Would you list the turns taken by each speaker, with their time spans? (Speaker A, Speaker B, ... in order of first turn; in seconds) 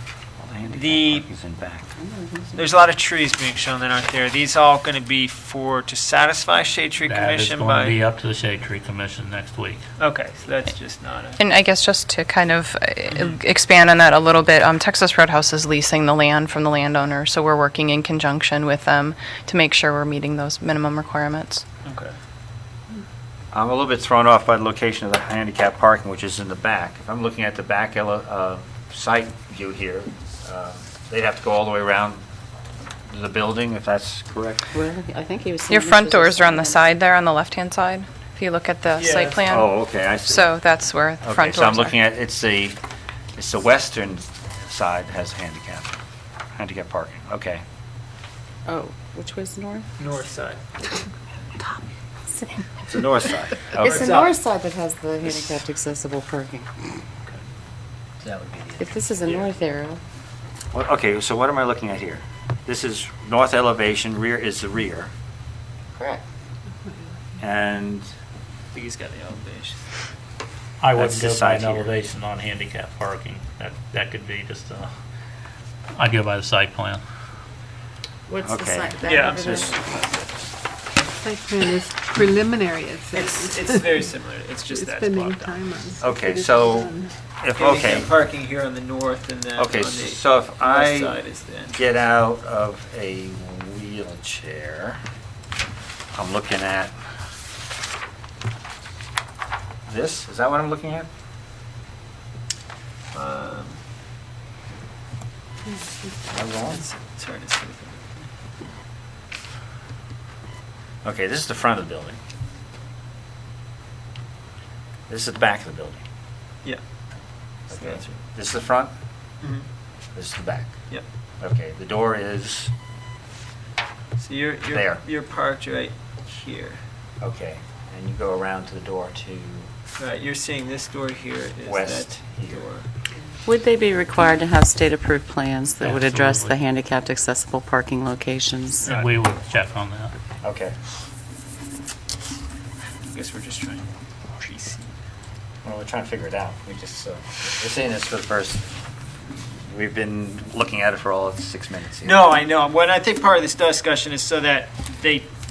Speaker A: 0.4-1.9, 23.5-32.2, 33.1-34.7, 39.5-40.5, 41.2-42.8, 43.4-45.9, 46.6-47.6, 52.9-54.1, 60.7-65.1, 67.4-68.1, 71.0-71.9, 78.4-79.7, 86.0-88.1, 89.6-91.2, 91.7-95.0, 96.1-96.9, 99.9-101.1, 106.3-106.8, 111.0-112.2, 115.1-116.0, 117.7-118.9, 120.1-120.7, 121.4-122.7, 124.7-125.0, 127.2-129.7, 131.6-132.6, 140.4-140.7, 145.6-148.6, 149.7-152.2
Speaker B: 0.7-1.3, 2.5-8.0, 10.0-11.4, 13.1-13.4, 21.8-22.1, 39.0-39.5, 50.0-50.6, 53.8-54.3, 68.7-69.9, 79.0-80.3, 83.1-85.6, 87.6-91.8, 103.1-103.8, 106.7-108.1, 117.7-118.2, 124.2-126.8, 130.0-132.9, 143.0-144.9, 152.0-155.3
Speaker C: 2.0-2.6, 34.7-36.9, 48.6-49.9, 52.4-52.6, 53.8-56.7, 58.8-60.0, 66.0-66.2, 78.3-79.7, 133.4-138.9
Speaker D: 7.0-9.8, 70.8-74.9, 76.0-77.0, 135.8-136.6, 138.8-140.1
Speaker E: 11.4-21.6, 35.7-42.0
Speaker F: 81.2-83.8, 84.7-87.2